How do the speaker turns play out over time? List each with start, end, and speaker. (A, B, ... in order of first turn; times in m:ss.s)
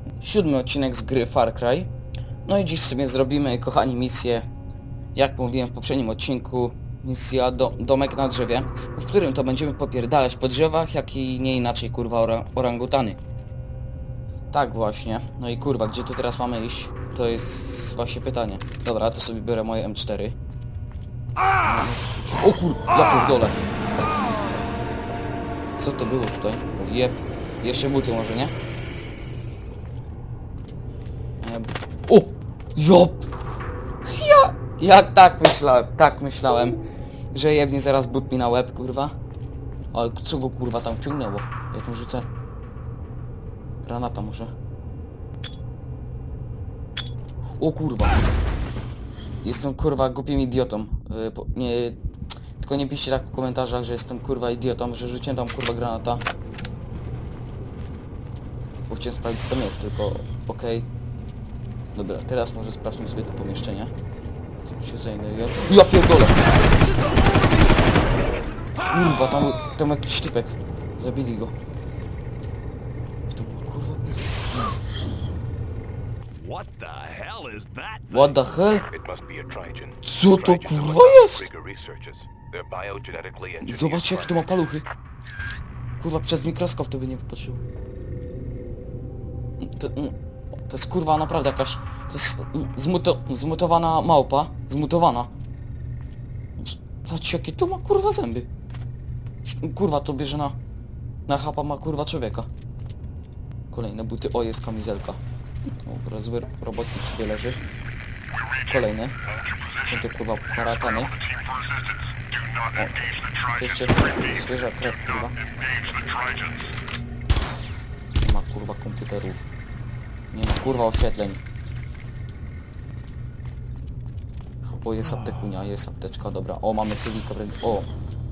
0:00.2-0:01.9 A
0:02.4-0:04.5 A
0:05.2-0:13.2 A
0:14.5-0:20.4 A
0:21.6-0:23.6 A
0:25.7-0:28.6 A
0:31.4-0:33.3 A
0:34.1-0:36.8 A
0:37.3-0:39.2 A
0:39.9-0:42.3 A
0:43.8-0:44.5 A
0:47.6-0:48.2 A
0:49.4-0:52.0 A
0:52.6-0:56.2 A
0:58.9-1:00.9 A
1:01.9-1:03.9 A
1:04.7-1:06.4 A
1:06.4-1:09.5 B
1:08.9-1:11.5 A
1:13.3-1:14.8 A
1:16.3-1:18.4 B
1:18.1-1:18.9 A
1:18.9-1:24.7 C
1:20.0-1:21.5 A
1:23.6-1:24.8 A
1:26.0-1:27.6 A
1:29.6-1:35.3 A
1:36.6-1:38.5 A
1:39.4-1:40.6 A
1:41.3-1:42.5 A
1:43.7-1:45.2 A
1:45.8-1:47.6 A
1:48.6-1:49.2 A
1:49.7-1:51.2 A
1:52.6-1:56.5 A
1:58.2-1:59.4 A
2:00.3-2:01.4 A
2:04.8-2:07.9 A